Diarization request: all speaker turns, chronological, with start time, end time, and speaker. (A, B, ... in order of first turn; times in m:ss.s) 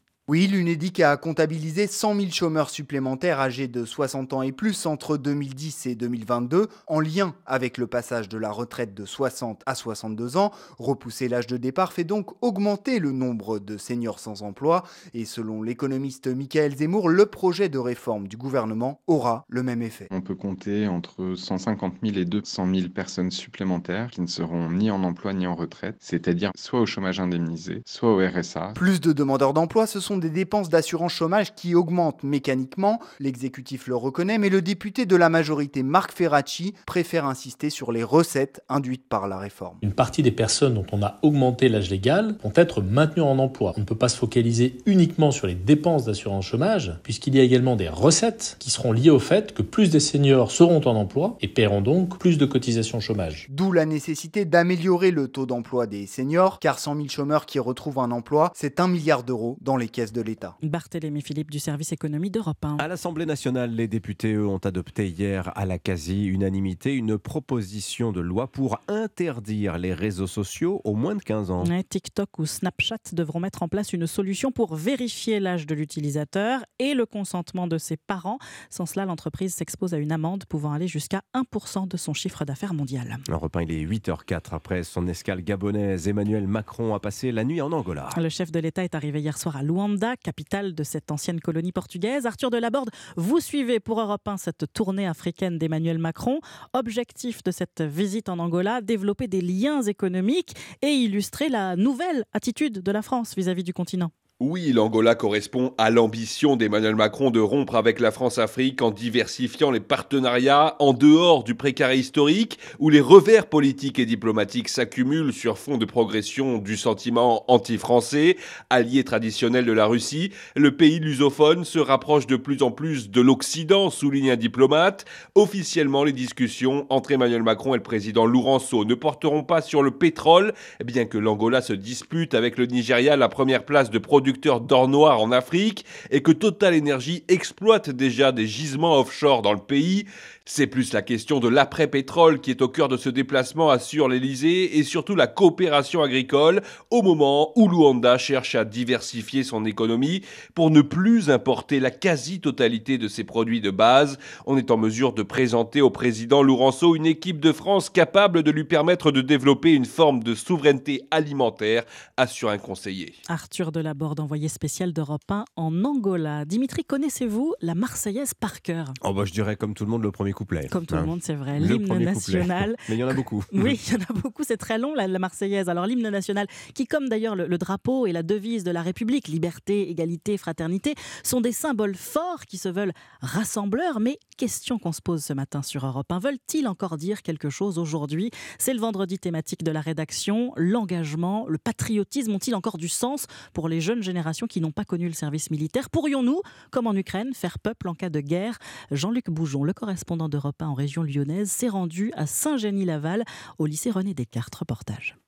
0:00.3-0:20.1 A
0:20.1-0:28.8 B
0:28.7-0:39.8 A
0:39.8-0:53.4 C
0:53.5-1:00.5 A
1:00.6-1:02.8 D
1:02.8-1:11.7 E
1:11.6-1:23.2 D
1:23.3-1:28.2 E
1:28.1-1:44.1 D
1:44.4-2:43.2 F
2:43.3-2:49.0 D
2:49.0-2:53.8 E
2:50.7-3:25.1 D